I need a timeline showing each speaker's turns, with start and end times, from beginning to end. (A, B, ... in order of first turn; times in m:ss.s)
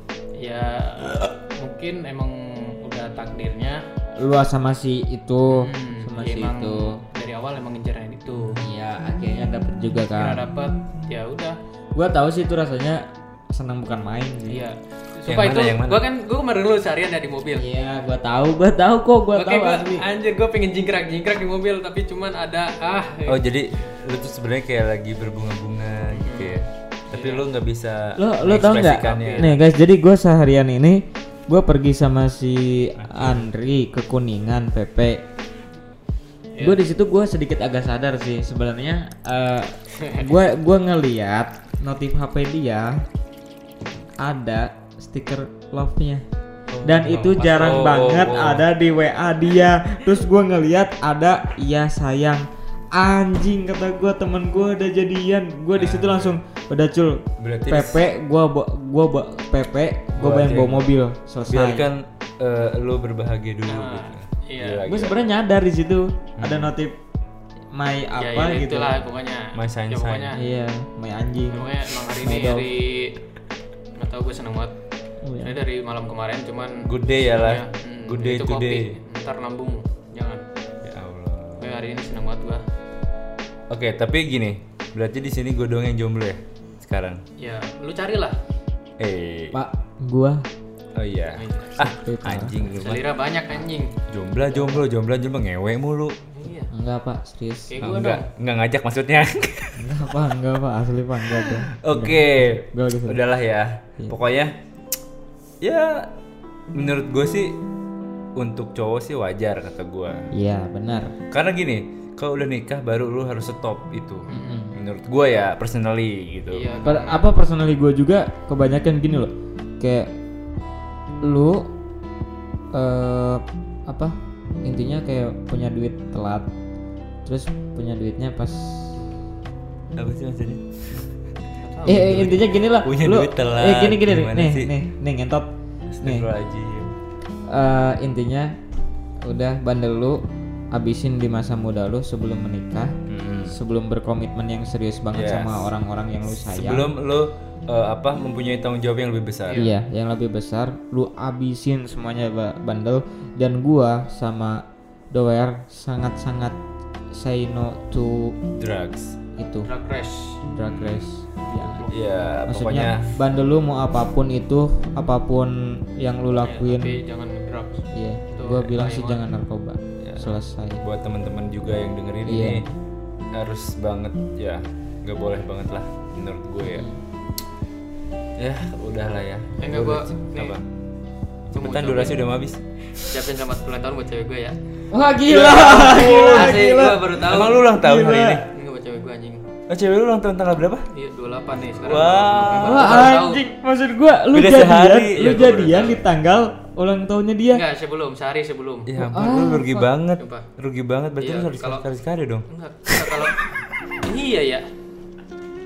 0:00.4-0:03.8 A
0:04.2-0:07.0 B
0:05.5-0:08.6 A
0:08.6-0:10.5 B
0:10.1-0:11.6 A
0:11.9-0:14.6 B
0:14.5-0:17.6 A
0:15.3-0:16.0 C
0:17.5-0:20.0 B
0:19.3-0:23.4 A
0:23.3-0:29.6 C
0:26.1-0:26.6 A
0:27.1-0:27.4 A
0:28.2-0:35.2 B
0:28.8-0:29.5 A
0:33.0-0:33.4 C
0:36.6-0:43.0 B
0:40.0-0:40.3 A
0:44.2-0:46.2 B
0:46.7-0:48.6 C
0:46.8-1:01.9 B
0:55.8-0:56.4 C
0:57.4-0:58.0 C
1:00.2-1:00.9 C
1:01.5-1:05.1 C
1:03.7-1:04.8 A
1:04.9-1:07.0 B
1:06.4-1:06.7 C
1:07.7-1:09.0 B
1:08.2-1:10.4 A
1:09.5-1:10.3 C
1:10.3-1:12.7 B
1:11.5-1:13.2 A
1:14.0-1:14.7 A
1:15.2-1:15.5 B
1:15.4-1:20.4 A
1:16.8-1:19.0 C
1:20.8-1:21.7 C
1:21.6-1:22.6 A
1:23.7-1:27.2 C
1:27.4-1:28.4 A
1:29.0-1:29.6 C
1:29.5-1:30.4 B
1:30.9-1:33.0 C
1:31.4-1:31.8 A
1:31.8-1:32.6 B
1:32.6-1:33.9 A
1:34.1-1:36.2 C
1:36.3-1:36.7 A
1:36.7-1:37.8 B
1:37.7-1:38.3 A
1:37.8-1:39.8 C
1:39.8-1:43.2 B
1:41.7-1:44.5 C
1:45.6-1:46.1 C
1:46.7-1:47.6 C
1:48.4-1:50.3 C
1:50.3-1:51.1 B
1:51.3-1:56.7 C
1:54.3-1:54.7 A
1:54.3-1:54.7 B
1:56.5-1:57.2 A
1:56.8-2:00.1 B
2:01.2-2:01.7 B
2:02.7-2:06.5 B
2:07.2-2:09.0 B
2:10.0-2:11.1 C
2:11.6-2:12.5 A
2:11.8-2:15.5 B
2:11.9-2:14.7 C
2:15.9-2:16.9 C
2:17.5-2:18.6 B
2:19.2-2:22.9 B
2:23.1-2:23.6 C
2:23.5-2:26.9 B
2:25.1-2:25.7 C
2:26.5-2:29.6 C
2:29.5-2:29.7 A
2:29.6-2:36.6 B
2:37.1-2:38.3 B
2:38.6-2:39.2 C
2:39.4-2:39.7 B
2:39.6-2:40.4 A
2:40.4-2:41.9 B
2:40.7-2:41.0 C
2:41.5-2:42.0 A
2:41.9-2:43.1 C
2:42.5-2:47.0 B
2:46.4-2:49.2 A
2:47.9-2:50.8 B
2:50.0-2:50.3 C
2:50.8-2:52.6 C
2:52.2-2:52.6 B
2:53.3-2:56.9 C
2:56.6-2:57.0 B
2:58.4-3:00.6 C
2:59.6-3:00.5 A
3:01.5-3:03.1 C
3:01.5-3:02.2 A
3:03.0-3:04.6 A
3:04.9-3:08.4 B
3:05.3-3:08.4 C
3:05.4-3:07.6 A
3:08.5-3:09.4 A
3:09.7-3:10.9 C
3:10.9-3:13.4 A
3:11.8-3:13.0 C
3:12.6-3:17.6 B
3:14.3-3:16.0 C
3:15.2-3:15.9 A
3:17.5-3:18.9 A
3:18.9-3:23.2 C
3:19.0-3:19.9 B
3:20.2-3:20.5 A
3:21.2-3:21.8 A
3:22.5-3:23.4 A
3:24.0-3:24.6 A